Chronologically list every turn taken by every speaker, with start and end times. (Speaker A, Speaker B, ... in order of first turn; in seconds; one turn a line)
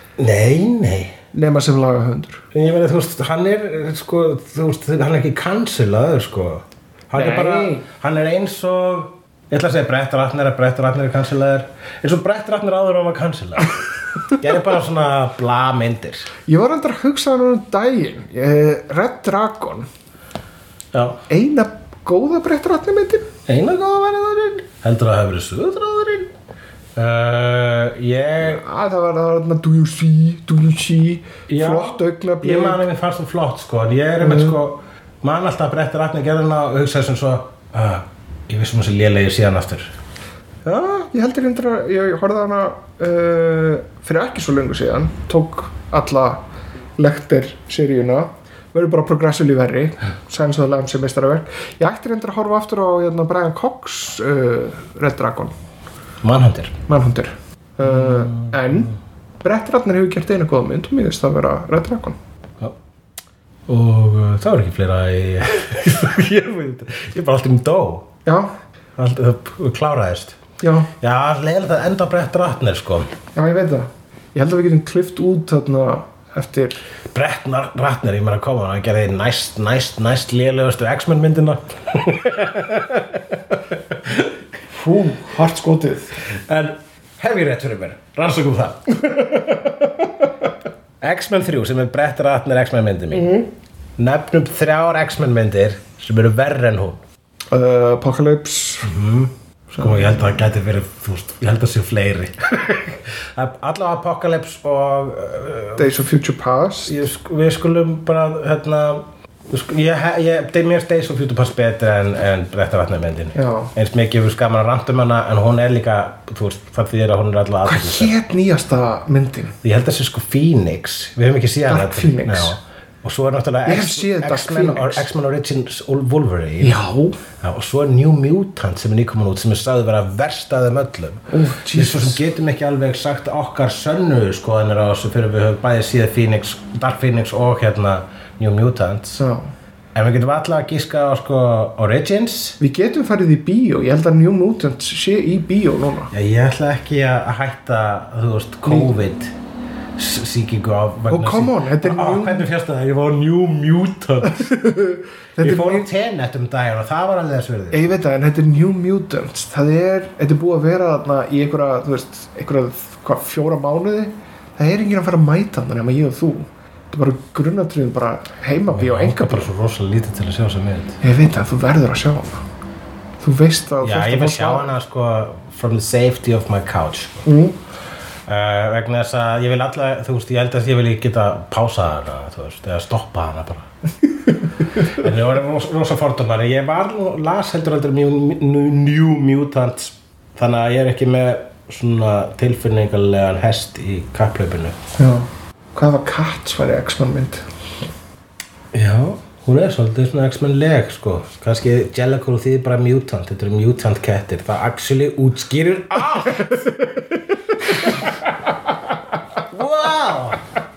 Speaker A: 0.2-1.2
Speaker B: 1.3-2.4
Speaker A: 2.5-16.3
Speaker B: 7.1-7.8
Speaker B: 16.5-19.9
Speaker A: 20.9-21.2
Speaker B: 21.3-23.3
Speaker A: 23.5-26.3
Speaker A: 27.0-28.6
Speaker B: 28.4-32.8
Speaker A: 31.5-39.9
Speaker B: 34.2-34.6
Speaker B: 40.6-46.4
Speaker B: 47.0-55.5
Speaker A: 56.2-56.7
Speaker B: 56.9-62.2
Speaker A: 57.8-58.9
Speaker A: 63.7-68.1
Speaker B: 68.2-68.5
Speaker A: 69.0-70.4
Speaker B: 70.6-70.9
Speaker A: 71.0-73.1
Speaker B: 73.3-76.8
Speaker A: 77.1-83.4
Speaker B: 84.7-86.2
Speaker A: 86.3-89.0
Speaker B: 89.0-89.8
Speaker A: 91.0-93.4
Speaker B: 93.1-93.5
Speaker A: 94.0-97.0
Speaker B: 97.5-99.0
Speaker A: 98.8-106.0
Speaker B: 105.8-107.0
Speaker A: 106.9-118.1
Speaker B: 113.3-113.7
Speaker B: 117.7-119.6
Speaker A: 119.6-126.8
Speaker B: 121.7-122.6
Speaker B: 123.7-125.1
Speaker B: 126.6-127.2
Speaker A: 127.4-139.2
Speaker B: 131.3-132.2
Speaker B: 139.2-139.5
Speaker A: 139.9-142.6
Speaker B: 142.6-146.1
Speaker A: 146.1-149.3
Speaker B: 148.7-148.9
Speaker A: 150.0-154.5
Speaker B: 151.1-152.5
Speaker B: 154.2-155.9
Speaker A: 155.4-157.9
Speaker B: 157.7-169.5
Speaker A: 168.7-171.0
Speaker B: 171.0-172.4
Speaker B: 173.2-174.7
Speaker A: 173.8-177.3
Speaker B: 177.2-177.6
Speaker A: 178.3-183.7
Speaker A: 184.8-194.8
Speaker B: 195.0-197.5
Speaker A: 198.7-206.6
Speaker B: 206.3-206.9
Speaker A: 209.5-210.4